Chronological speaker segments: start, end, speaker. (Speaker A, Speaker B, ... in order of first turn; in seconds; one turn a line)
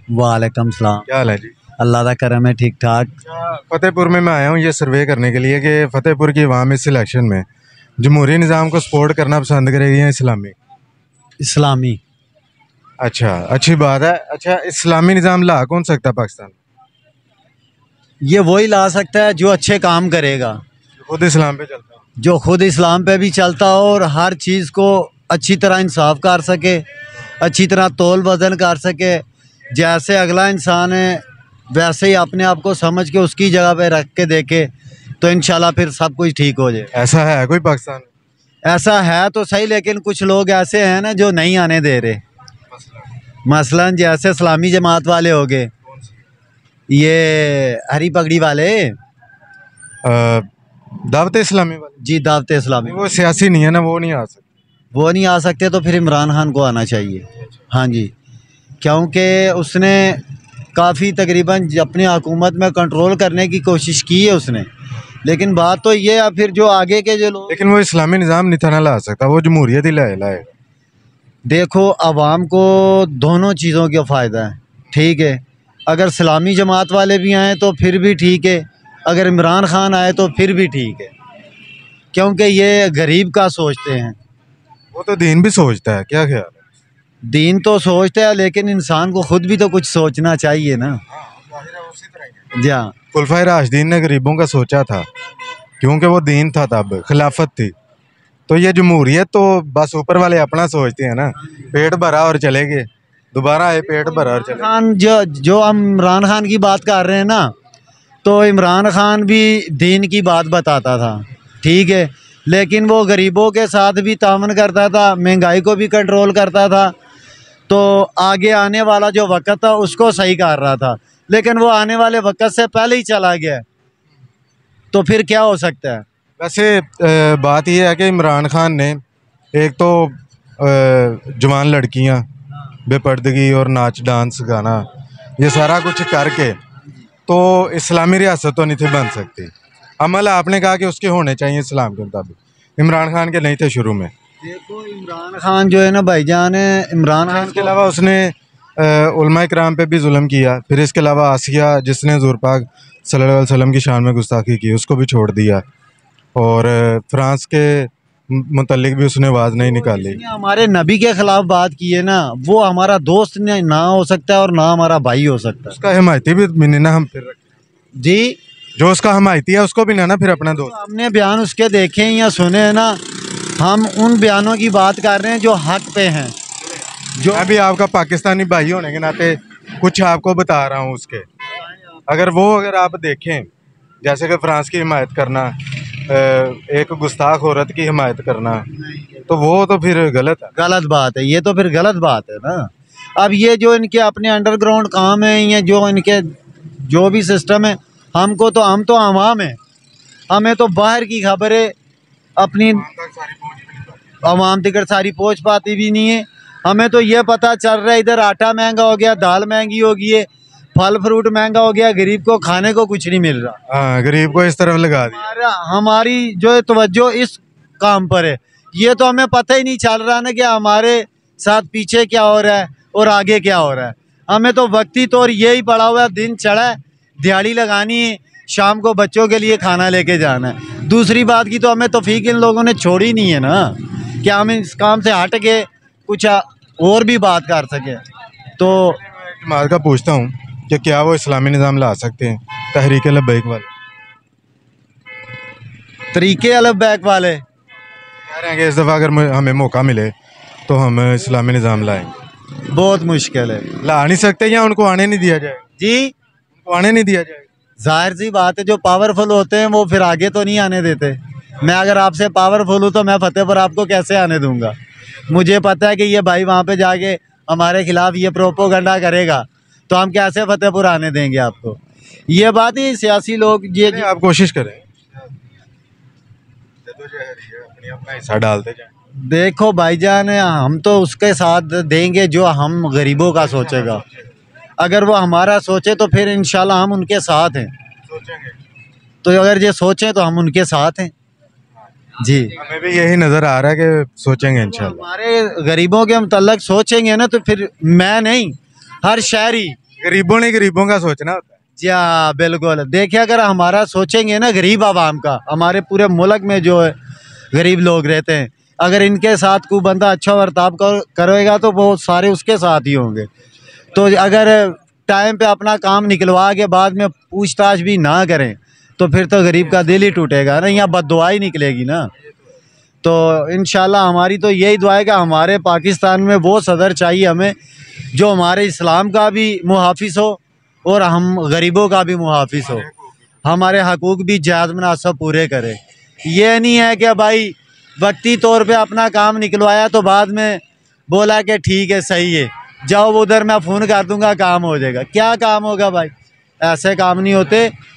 Speaker A: 0.1-1.1
Speaker B: 1.1-1.5
Speaker A: 1.8-3.2
Speaker B: 3.3-7.5
Speaker B: 8.0-10.6
Speaker A: 11.4-12.0
Speaker B: 13.0-16.6
Speaker A: 18.2-20.6
Speaker B: 21.0-21.9
Speaker A: 22.2-26.9
Speaker A: 27.4-36.9
Speaker B: 36.9-38.1
Speaker A: 38.6-42.2
Speaker A: 43.5-45.7
Speaker A: 46.9-49.0
Speaker B: 50.0-52.0
Speaker A: 52.0-53.1
Speaker B: 52.9-54.5
Speaker A: 54.9-58.1
Speaker A: 58.8-60.2
Speaker A: 60.8-64.7
Speaker A: 65.2-67.6
Speaker B: 67.5-70.5
Speaker A: 71.5-81.1
Speaker A: 82.1-84.2
Speaker B: 84.9-86.6
Speaker A: 87.2-91.0
Speaker B: 91.3-92.3
Speaker A: 92.5-93.0
Speaker B: 93.1-95.1
Speaker B: 95.8-97.7
Speaker B: 98.5-104.7
Speaker A: 104.1-107.5
Speaker A: 108.2-117.0
Speaker A: 117.7-123.6
Speaker A: 124.9-126.0
Speaker B: 126.4-129.0
Speaker B: 129.5-132.2
Speaker B: 132.9-134.9
Speaker B: 135.4-136.6
Speaker B: 137.3-144.1
Speaker A: 144.4-147.8
Speaker B: 147.3-155.6
Speaker B: 156.3-160.2
Speaker A: 159.6-165.8
Speaker B: 165.7-167.4
Speaker A: 168.0-168.4
Speaker B: 168.8-170.8
Speaker A: 170.4-173.0
Speaker A: 173.6-176.3
Speaker A: 177.2-177.5
Speaker B: 177.3-181.3
Speaker B: 182.1-183.5
Speaker B: 184.0-188.7
Speaker A: 188.8-189.3
Speaker B: 189.3-190.5
Speaker A: 190.5-199.6
Speaker A: 200.3-201.7
Speaker A: 202.4-202.9
Speaker B: 202.8-204.0
Speaker A: 204.2-213.6
Speaker B: 213.7-215.3
Speaker A: 215.1-238.0
Speaker A: 238.6-239.0
Speaker B: 239.0-243.7
Speaker A: 246.1-247.4
Speaker B: 248.3-250.1
Speaker B: 250.7-252.1
Speaker A: 252.7-253.7
Speaker B: 253.8-255.6
Speaker A: 255.8-256.1
Speaker B: 256.6-257.5
Speaker A: 257.8-264.8
Speaker A: 265.3-274.1
Speaker B: 273.9-274.9
Speaker B: 276.9-278.9
Speaker A: 279.2-284.0
Speaker B: 283.4-284.0
Speaker A: 284.8-287.7
Speaker B: 288.1-288.6
Speaker A: 289.2-291.1
Speaker A: 292.2-292.5
Speaker B: 292.6-295.1
Speaker A: 294.6-299.8
Speaker B: 300.0-301.5
Speaker A: 301.8-306.9
Speaker A: 307.5-313.3
Speaker A: 313.9-322.1
Speaker A: 323.0-327.6
Speaker A: 328.1-332.9
Speaker A: 333.4-347.7